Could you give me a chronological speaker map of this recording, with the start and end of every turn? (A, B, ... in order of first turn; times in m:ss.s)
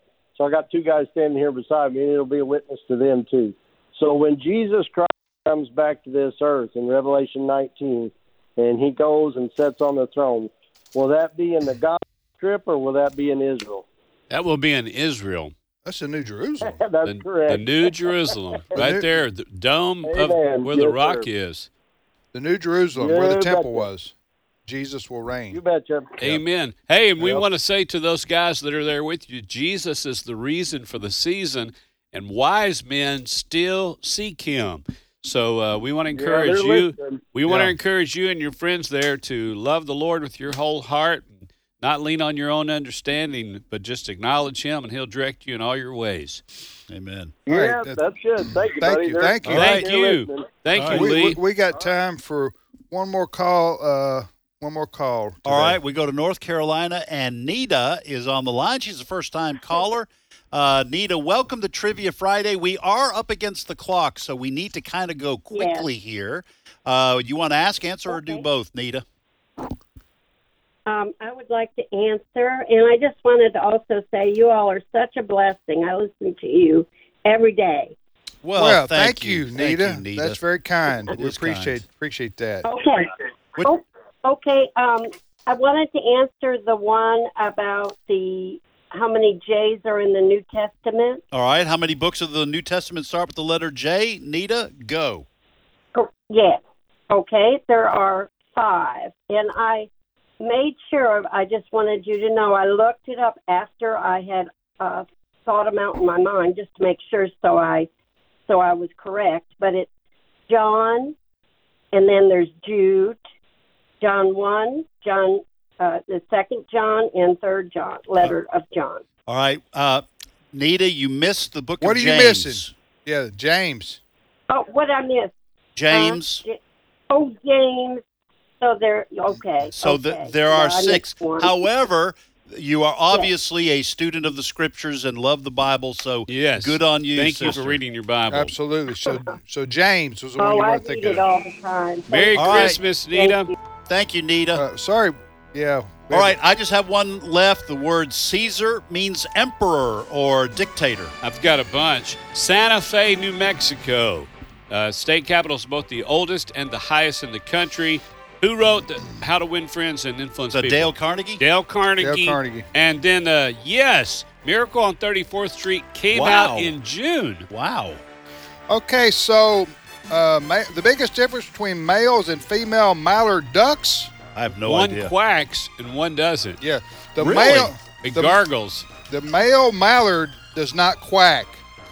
0:00.4-0:13.8 A
0:14.3-0:15.5 B
0:15.8-0:16.8 C
0:16.6-0:17.9 A
0:17.0-0:21.7 B
0:18.7-0:19.1 C
0:20.0-0:21.2 A
0:22.3-0:24.1 C
0:23.0-0:23.9 A
0:24.7-0:25.6 C
0:25.5-0:26.2 A
0:26.2-0:46.4 B
0:36.1-0:37.2 A
0:37.5-0:37.7 C
0:46.9-0:47.3 D
0:47.4-0:50.5 A
0:47.5-0:49.8 C
0:49.4-0:49.9 D
0:49.5-0:51.4 B
0:50.7-0:51.1 D
0:50.8-0:55.8 C
0:55.4-1:09.0 D
1:05.5-1:05.9 E
1:08.1-1:08.4 E
1:10.9-1:17.9 E
1:18.4-1:20.4 D
1:18.6-1:22.6 C
1:21.1-1:21.8 D
1:22.6-1:31.2 E
1:31.3-1:35.2 D
1:35.9-1:39.9 E
1:40.4-1:47.9 E
1:48.5-1:49.9 E
1:50.5-1:51.1 E
1:51.9-1:53.2 E
1:54.0-1:59.0 E
1:59.3-2:02.7 D
2:01.8-2:04.0 C
2:04.5-2:05.3 E
2:05.8-2:06.4 D
2:05.9-2:08.0 E
2:08.6-2:11.6 E
2:09.7-2:17.8 D
2:16.3-2:18.5 B
2:18.3-2:21.2 C
2:19.1-2:19.3 E
2:20.4-2:23.5 E
2:22.1-2:23.5 B
2:22.3-2:22.8 D
2:23.9-2:24.6 D
2:24.5-2:26.4 C
2:26.1-2:31.1 D
2:31.2-2:47.5 B
2:40.5-2:41.4 D
2:42.0-2:42.6 C
2:46.1-2:46.7 D
2:47.5-2:48.0 D
2:48.7-2:54.2 C
2:54.3-2:55.1 D
2:54.6-2:56.6 B
2:56.6-2:58.4 C
2:57.2-2:57.7 D
2:57.2-2:58.8 B
2:59.0-3:01.6 C